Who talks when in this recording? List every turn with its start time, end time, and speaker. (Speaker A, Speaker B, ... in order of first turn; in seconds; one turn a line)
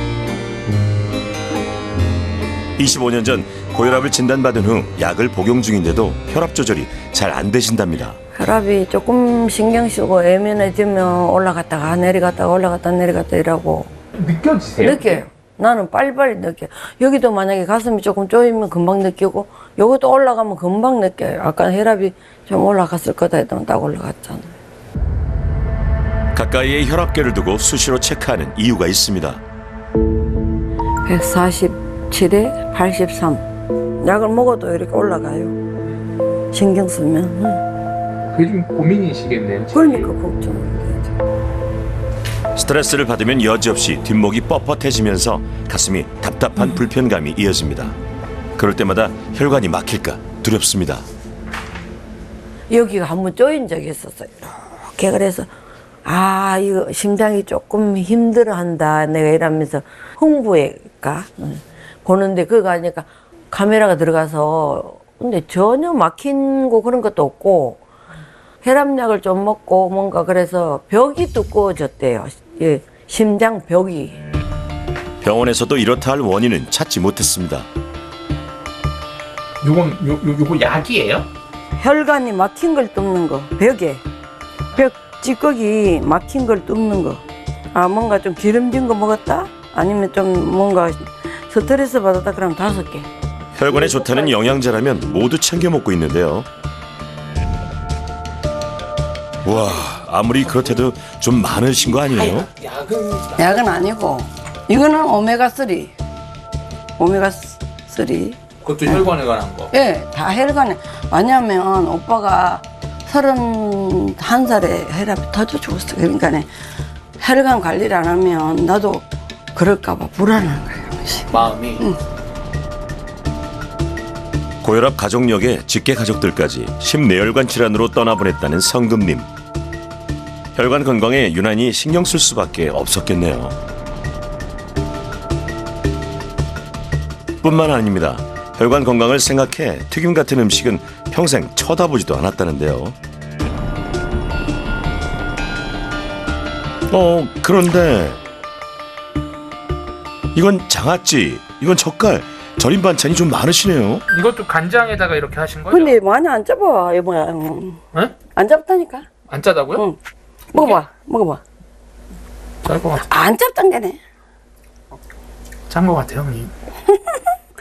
Speaker A: 2.8-8.2
Speaker B: 8.3-13.9
Speaker C: 14.2-15.2
Speaker B: 14.8-24.5
Speaker A: 26.3-29.4
Speaker B: 31.1-33.4
Speaker B: 34.0-35.5
Speaker B: 36.5-37.6
Speaker C: 38.3-40.1
Speaker B: 39.7-41.1
Speaker A: 42.5-48.0
Speaker A: 48.6-51.1
Speaker B: 52.7-55.5
Speaker B: 56.0-67.8
Speaker B: 68.6-74.2
Speaker A: 75.2-77.7
Speaker C: 79.6-81.3
Speaker B: 81.8-84.0
Speaker B: 84.7-93.1
Speaker A: 93.5-96.5
Speaker A: 99.4-102.5
Speaker C: 102.1-103.6
Speaker B: 103.3-105.9
Speaker B: 107.0-109.1
Speaker C: 108.6-109.7
Speaker B: 109.7-116.5
Speaker B: 117.2-122.0
Speaker C: 121.3-121.9
Speaker A: 124.6-129.3
Speaker A: 130.5-133.6
Speaker A: 137.4-142.9
Speaker A: 146.9-148.2
Speaker A: 150.3-154.0
Speaker C: 154.1-156.0
Speaker B: 155.7-159.1
Speaker C: 159.3-159.8
Speaker B: 159.7-160.0
Speaker B: 160.5-161.4
Speaker C: 160.5-160.8
Speaker C: 162.6-163.1
Speaker B: 162.9-164.0
Speaker C: 165.7-166.5
Speaker B: 166.9-167.3